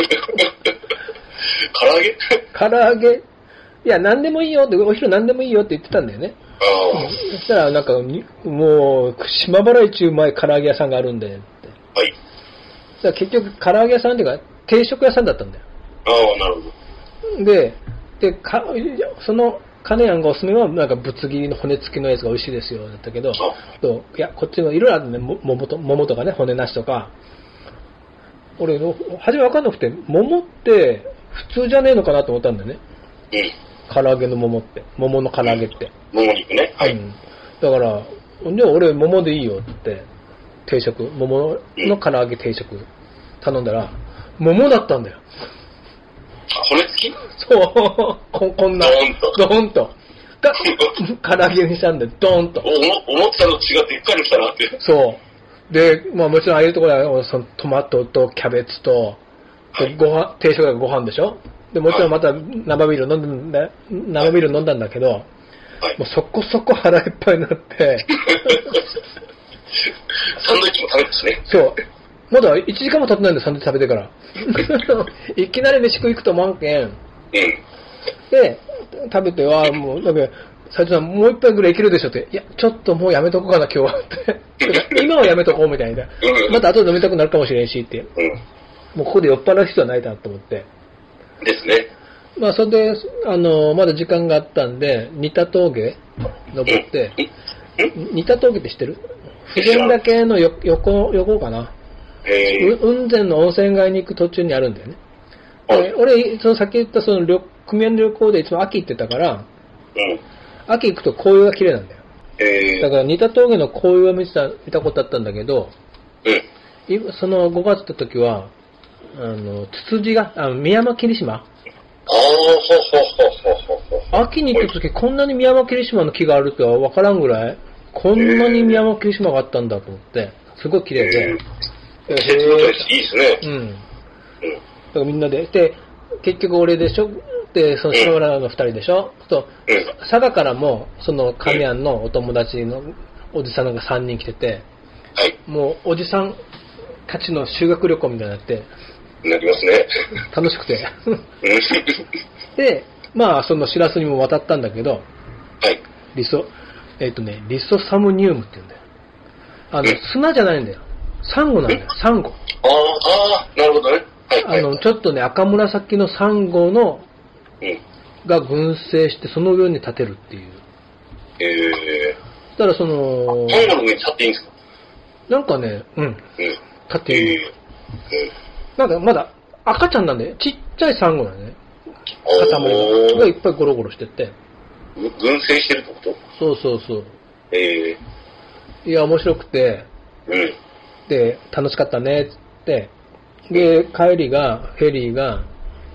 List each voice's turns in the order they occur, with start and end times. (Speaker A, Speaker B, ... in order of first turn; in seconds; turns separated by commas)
Speaker A: 1.7-2.4, Speaker B: 2.5-3.2, Speaker B: 3.8-6.4, Speaker A: 6.6-7.1, Speaker B: 6.9-11.8, Speaker B: 13.0-15.6, Speaker A: 16.1-16.7, Speaker B: 17.4-27.1, Speaker B: 28.6-32.8, Speaker B: 33.9-35.9, Speaker A: 36.1-37.0, Speaker B: 36.8-40.1, Speaker B: 40.7-42.9, Speaker B: 43.4-45.2, Speaker A: 46.5-47.2, Speaker B: 47.4-52.7, Speaker A: 48.8-49.4, Speaker A: 52.6-54.8, Speaker B: 54.8-59.2, Speaker B: 59.8-65.3, Speaker B: 66.0-68.8, Speaker A: 70.3-71.5, Speaker B: 71.5-77.0, Speaker A: 77.3-77.6, Speaker B: 78.3-88.1, Speaker A: 86.2-86.6, Speaker B: 89.0-90.7, Speaker A: 91.4-91.9, Speaker B: 92.4-96.0, Speaker B: 96.5-97.2, Speaker B: 97.9-101.7, Speaker A: 99.6-100.0, Speaker A: 102.2-102.8, Speaker B: 102.5-105.0, Speaker B: 105.7-109.5, Speaker B: 110.7-112.0, Speaker A: 112.4-112.9, Speaker B: 112.8-115.8, Speaker B: 116.9-118.5, Speaker B: 119.1-121.5, Speaker A: 122.1-124.1, Speaker B: 124.1-131.4, Speaker A: 128.2-128.8, Speaker A: 131.0-131.4, Speaker A: 132.1-133.4, Speaker B: 132.1-133.8, Speaker B: 134.9-144.7, Speaker B: 145.5-146.4, Speaker B: 147.1-148.7, Speaker A: 149.2-149.9, Speaker B: 150.3-151.2, Speaker A: 151.4-152.0, Speaker B: 152.6-155.1, Speaker B: 156.1-158.8, Speaker B: 159.7-162.4, Speaker A: 162.6-164.8, Speaker B: 164.4-167.1, Speaker B: 168.2-170.6, Speaker A: 171.4-172.2, Speaker B: 172.6-173.7, Speaker A: 173.5-174.5, Speaker B: 175.3-176.2, Speaker B: 176.9-177.5, Speaker A: 177.1-177.5, Speaker B: 178.8-181.6, Speaker A: 182.3-183.3, Speaker B: 182.3-184.3, Speaker A: 185.0-186.2, Speaker B: 186.4-187.1, Speaker A: 187.5-188.0, Speaker B: 188.8-189.9, Speaker A: 190.3-190.6, Speaker B: 191.1-192.9, Speaker B: 193.5-195.5